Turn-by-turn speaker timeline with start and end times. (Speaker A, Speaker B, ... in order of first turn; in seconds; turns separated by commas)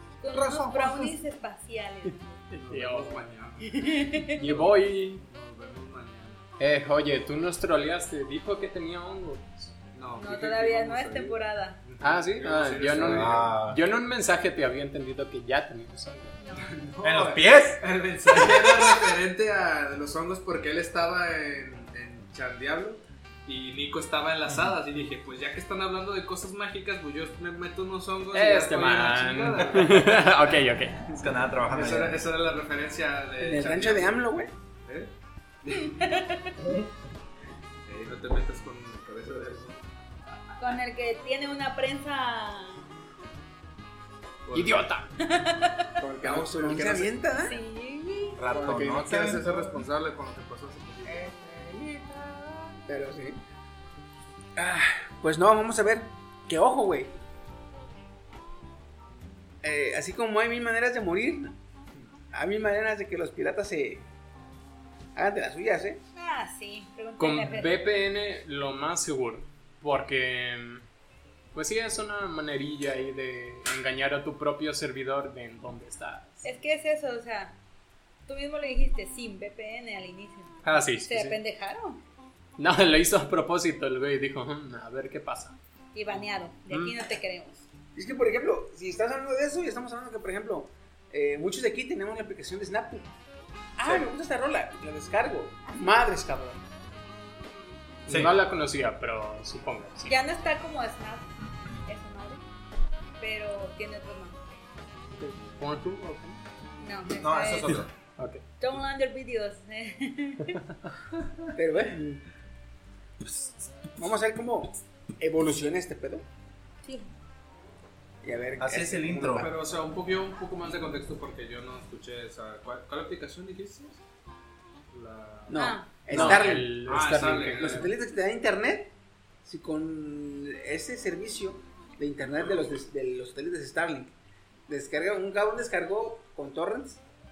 Speaker A: 0.2-2.4, Speaker B: 0.3-1.1, Speaker C: 2.5-3.3, Speaker D: 2.6-3.9, Speaker A: 3.7-4.4, Speaker C: 4.3-5.2, Speaker D: 4.4-6.4, Speaker C: 6.6-9.7, Speaker D: 9.9-13.5, Speaker A: 10.2-11.8, Speaker C: 12.0-16.4, Speaker B: 13.0-13.8, Speaker A: 16.4-16.7, Speaker D: 16.7-30.6, Speaker B: 17.0-17.8, Speaker C: 28.3-31.0, Speaker B: 31.1-32.2, Speaker D: 31.7-34.2, Speaker E: 33.4-34.5, Speaker D: 34.8-35.1, Speaker D: 35.6-36.0, Speaker A: 35.7-36.5, Speaker D: 37.9-39.8, Speaker A: 40.6-42.8, Speaker D: 44.5-44.8, Speaker C: 44.5-45.1, Speaker A: 45.2-45.9, Speaker D: 46.0-47.2, Speaker E: 46.2-47.6, Speaker A: 47.4-48.4, Speaker B: 48.4-49.8, Speaker D: 48.4-51.4, Speaker E: 51.2-51.9, Speaker E: 52.8-53.4, Speaker E: 54.5-57.1, Speaker E: 59.6-61.5, Speaker E: 62.3-64.0, Speaker E: 65.1-66.0, Speaker A: 66.2-67.7, Speaker C: 67.2-70.8, Speaker C: 71.5-76.4, Speaker A: 76.4-77.6, Speaker A: 78.3-82.0, Speaker C: 80.6-81.4, Speaker C: 82.6-85.6, Speaker A: 85.9-87.7, Speaker C: 86.7-87.1, Speaker E: 87.9-93.1, Speaker E: 93.8-96.6, Speaker C: 98.0-100.1, Speaker B: 98.1-98.3, Speaker A: 100.1-101.3, Speaker A: 101.8-102.4, Speaker A: 103.2-104.6, Speaker C: 105.1-106.4, Speaker A: 106.8-107.8, Speaker B: 107.2-107.9, Speaker A: 108.6-110.6, Speaker E: 111.5-112.2, Speaker B: 113.2-113.7, Speaker E: 114.0-116.2, Speaker A: 116.8-117.1, Speaker E: 118.2-119.5, Speaker B: 118.6-119.5, Speaker D: 119.4-124.0, Speaker D: 124.9-127.9, Speaker E: 125.5-126.8, Speaker A: 125.5-125.9, Speaker C: 126.1-127.9, Speaker E: 127.4-128.9, Speaker E: 129.4-134.1, Speaker D: 132.4-132.7, Speaker E: 134.7-137.0